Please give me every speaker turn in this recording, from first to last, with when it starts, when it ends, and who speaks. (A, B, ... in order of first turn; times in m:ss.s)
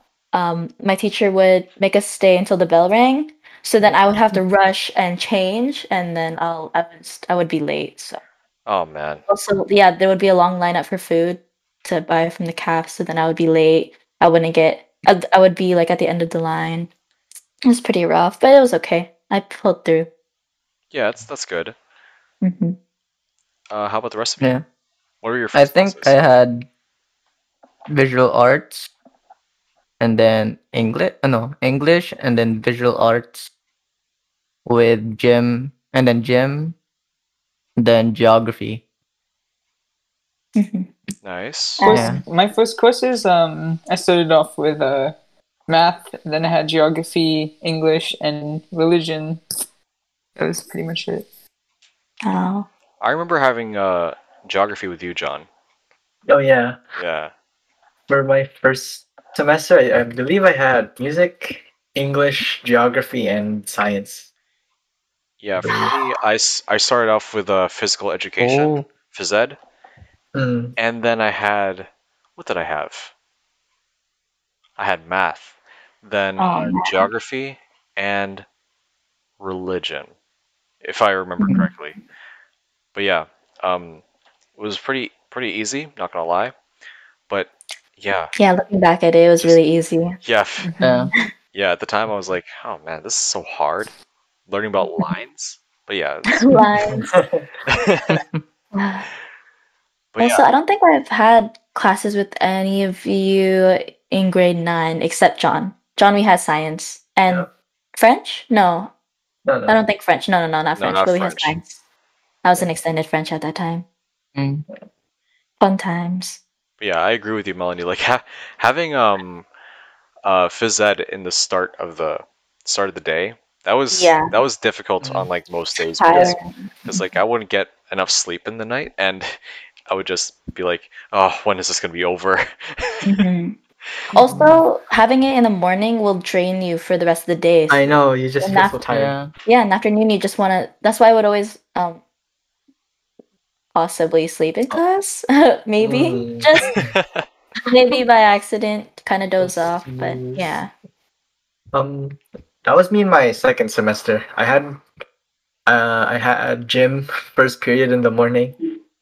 0:00.3-0:08.2 A
0:08.7-0:09.2 B
0:09.3-0:16.9 A
0:17.7-0:20.1 A
0:20.9-0:21.8 B
0:22.4-0:22.8 A
0:23.7-0:24.5 B
0:25.2-0:26.2 B
0:25.5-0:26.7 C
0:27.9-0:28.9 C
0:30.0-0:33.5 C
0:34.6-0:36.8 C
0:37.8-0:38.8 C
0:40.6-0:40.9 A
0:41.2-0:41.8 B
0:41.8-0:42.2 A
0:41.8-0:45.2 D
0:41.9-0:42.2 C
0:45.7-0:49.4 D
0:50.4-0:51.2 D
0:52.2-0:52.7 A
0:53.0-0:55.5 B
0:56.3-0:56.8 E
0:57.0-0:57.3 B
0:58.1-1:04.3 E
1:05.4-1:09.6 B
1:05.6-1:05.9 E
1:05.7-1:06.0 A
1:08.4-1:08.9 C
1:10.3-1:10.8 E
1:10.8-1:13.1 B
1:14.8-1:18.4 B
1:16.4-1:17.1 A
1:19.4-1:20.1 B
1:20.8-1:22.0 B
1:21.4-1:21.7 A
1:23.0-1:24.0 B
1:24.6-1:26.5 B
1:27.3-1:28.3 B
1:28.4-1:30.2 A
1:30.2-1:30.7 B
1:30.6-1:31.1 D
1:30.8-1:31.1 C
1:31.5-1:33.9 B
1:34.5-1:36.6 B
1:34.8-1:35.1 A
1:36.3-1:37.1 A
1:37.1-1:37.5 E
1:37.7-1:38.1 B
1:38.1-1:38.4 C
1:38.7-1:39.1 A
1:40.1-1:40.4 B
1:40.2-1:48.9 A
1:49.4-1:49.8 E
1:49.7-1:51.8 A
1:50.8-1:51.6 B
1:52.4-1:53.8 A
1:54.4-1:54.6 C
1:55.6-1:56.4 A
1:56.8-1:59.5 B
2:00.2-2:13.2 B
2:03.9-2:04.3 A
2:05.0-2:05.3 E
2:06.0-2:07.0 A
2:13.0-2:13.6 A
2:14.1-2:18.8 A
2:14.1-2:14.6 C
2:17.7-2:19.2 E
2:18.9-2:19.3 C
2:19.4-2:22.0 A
2:23.8-2:26.8 A
2:25.8-2:26.8 E
2:26.8-2:27.3 B
2:27.7-2:30.7 A
2:29.4-2:30.5 E
2:31.7-2:34.8 E
2:35.7-2:38.6 E